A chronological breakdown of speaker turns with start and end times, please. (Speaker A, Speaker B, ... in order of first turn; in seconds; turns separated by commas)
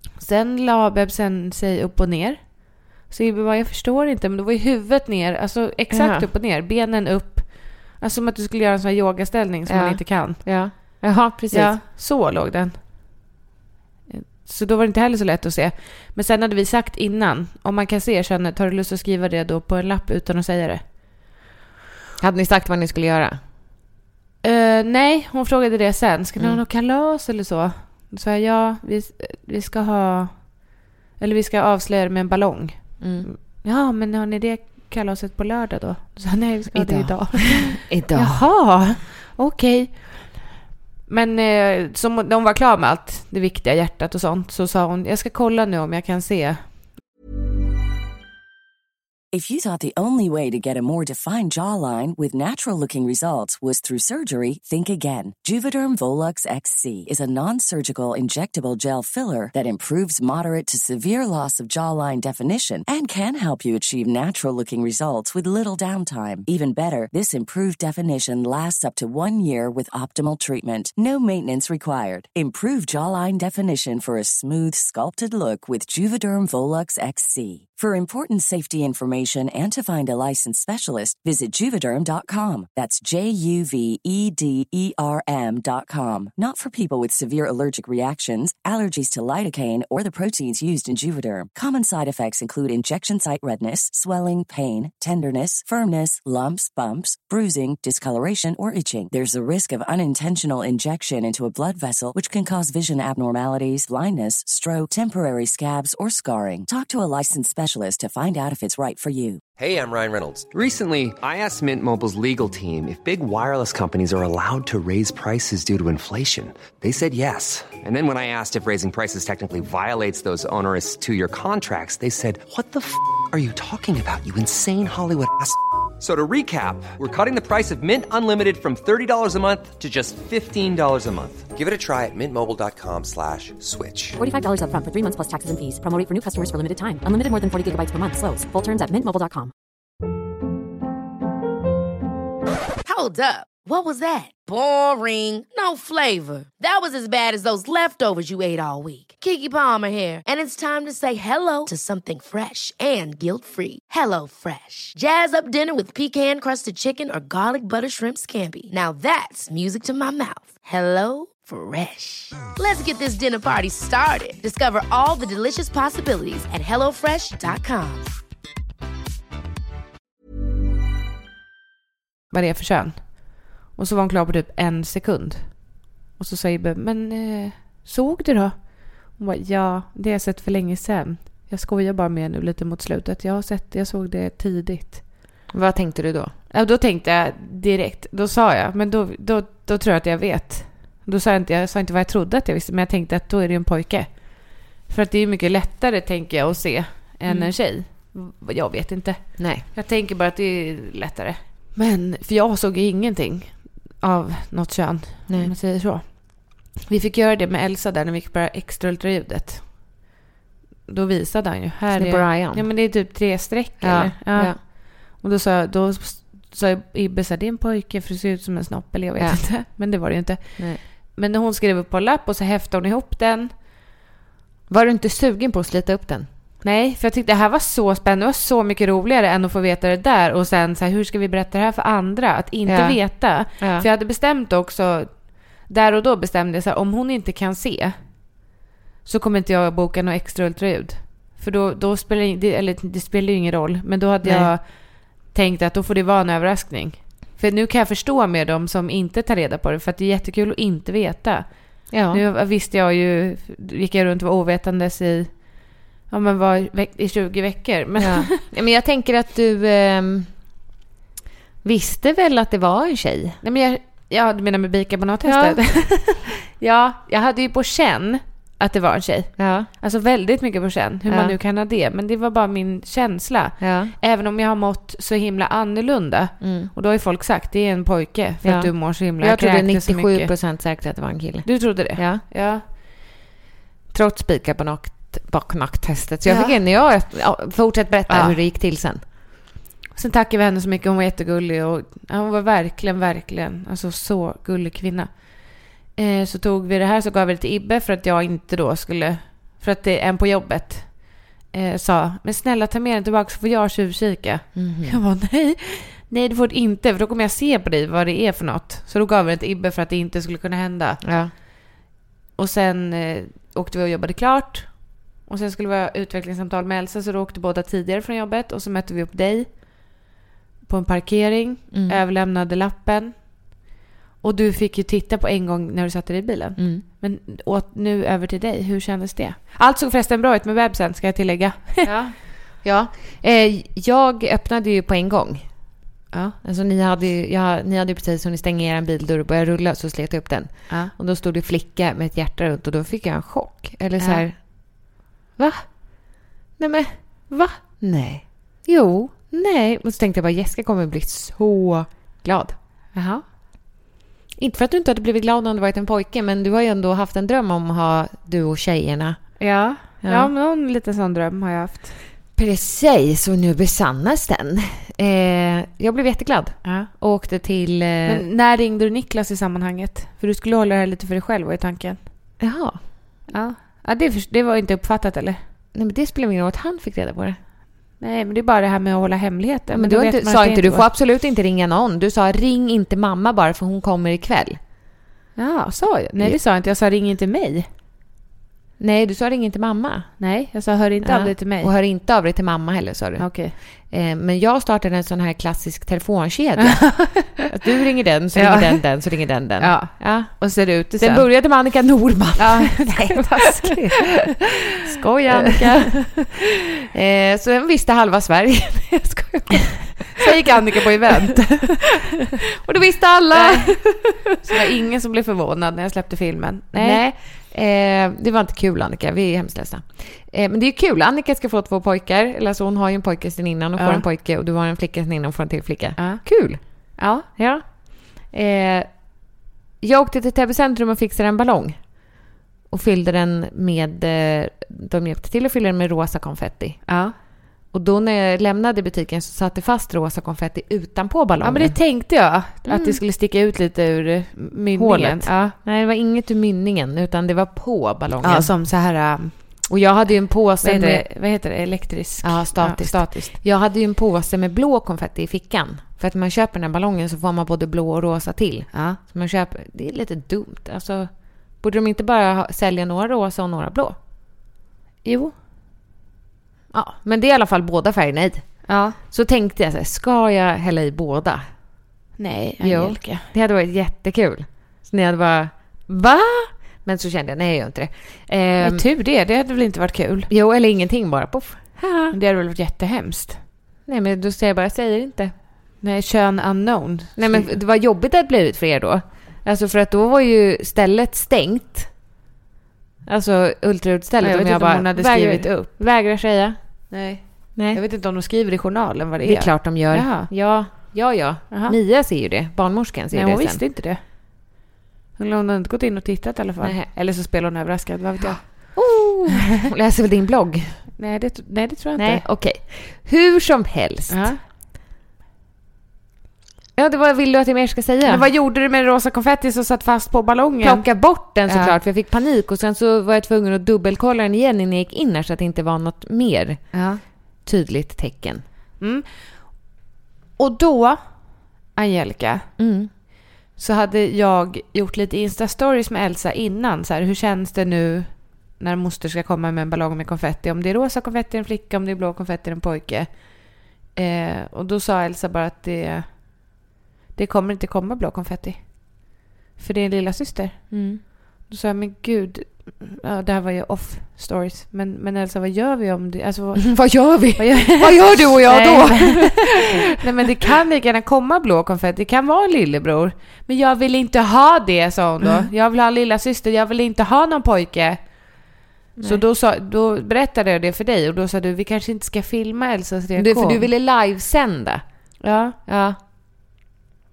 Speaker A: 0.2-12.8, Speaker B: 5.9-6.3, Speaker B: 9.7-11.8, Speaker A: 14.1-20.9, Speaker B: 22.2-23.4, Speaker A: 24.4-40.5, Speaker B: 26.4-26.6, Speaker B: 33.0-33.3, Speaker B: 36.7-38.5, Speaker A: 41.1-46.7, Speaker C: 49.3-109.4, Speaker D: 109.6-134.2, Speaker E: 134.2-139.5, Speaker F: 142.8-168.1, Speaker A: 172.3-185.3, Speaker B: 185.5-186.3, Speaker A: 186.5-209.9, Speaker B: 197.3-197.5, Speaker B: 199.4-199.6, Speaker B: 205.3-205.5, Speaker A: 210.9-223.5, Speaker B: 212.0-212.7, Speaker B: 213.8-214.6, Speaker B: 219.2-219.5, Speaker B: 224.7-226.3, Speaker A: 226.6-238.0, Speaker B: 232.7-233.9, Speaker A: 239.1-258.4, Speaker B: 244.2-244.5, Speaker B: 251.9-252.2, Speaker B: 258.0-260.3, Speaker B: 261.6-263.4, Speaker A: 263.4-280.3, Speaker B: 265.2-265.6, Speaker B: 269.4-269.7, Speaker B: 271.1-271.4, Speaker B: 273.6-273.9, Speaker B: 276.4-276.7, Speaker B: 278.4-282.2, Speaker A: 281.4-282.6, Speaker B: 283.9-289.0, Speaker A: 286.3-286.6, Speaker A: 288.1-288.4, Speaker A: 289.9-311.0, Speaker B: 304.6-305.0, Speaker B: 311.0-311.3, Speaker A: 312.4-319.9, Speaker A: 320.7-323.6, Speaker B: 321.7-322.0, Speaker A: 324.2-331.9, Speaker B: 326.6-326.8, Speaker B: 331.8-335.6, Speaker B: 336.4-352.6, Speaker A: 344.0-344.3, Speaker A: 352.9-353.2, Speaker B: 354.4-360.3, Speaker A: 359.4-362.0, Speaker B: 362.4-368.2, Speaker A: 366.6-366.9, Speaker A: 368.1-372.1, Speaker B: 372.4-372.8, Speaker A: 373.3-375.4, Speaker B: 375.7-377.4, Speaker A: 378.0-380.9, Speaker B: 379.7-384.6, Speaker A: 385.4-387.7, Speaker B: 388.8-390.2, Speaker A: 390.2-391.7, Speaker B: 391.0-410.5, Speaker A: 393.2-393.5, Speaker A: 396.6-397.4, Speaker A: 398.3-398.9, Speaker A: 399.6-401.3, Speaker A: 402.4-404.2, Speaker A: 405.3-406.2, Speaker A: 410.1-412.1, Speaker B: 412.5-414.2, Speaker A: 413.3-417.0, Speaker B: 416.8-429.1, Speaker A: 423.8-424.0, Speaker A: 426.0-427.3, Speaker B: 429.8-436.9, Speaker A: 436.9-437.1, Speaker B: 437.7-441.8, Speaker A: 441.4-445.6, Speaker B: 442.7-443.0, Speaker B: 444.7-448.5, Speaker A: 448.2-449.7, Speaker B: 449.7-451.1, Speaker A: 450.6-453.4, Speaker B: 452.2-464.0, Speaker A: 458.7-459.0, Speaker A: 465.0-465.3, Speaker B: 466.7-471.5, Speaker A: 468.7-469.0, Speaker A: 472.2-473.3, Speaker B: 472.6-478.9, Speaker A: 478.6-480.3, Speaker B: 480.3-482.2, Speaker A: 482.1-483.4, Speaker B: 483.9-485.3, Speaker A: 485.8-487.6, Speaker B: 487.2-491.9, Speaker B: 493.1-496.6, Speaker A: 494.2-495.7, Speaker A: 496.9-500.3, Speaker B: 497.6-497.8, Speaker B: 499.2-503.6, Speaker A: 501.5-501.8, Speaker A: 503.1-504.4, Speaker A: 505.2-508.9, Speaker B: 506.6-506.9, Speaker B: 508.2-510.9, Speaker A: 511.0-512.2, Speaker B: 512.0-514.4, Speaker A: 514.1-514.4, Speaker B: 516.8-518.3, Speaker A: 518.0-521.8, Speaker B: 520.6-526.8, Speaker A: 526.7-527.0, Speaker B: 527.4-528.4, Speaker A: 528.8-529.8, Speaker A: 530.4-532.5, Speaker B: 532.6-532.9, Speaker A: 533.5-546.5, Speaker A: 547.1-568.4, Speaker B: 550.7-551.0, Speaker B: 556.6-559.7, Speaker B: 569.0-569.2, Speaker A: 569.0-573.7, Speaker B: 573.2-575.1, Speaker A: 575.2-575.6, Speaker B: 575.7-576.0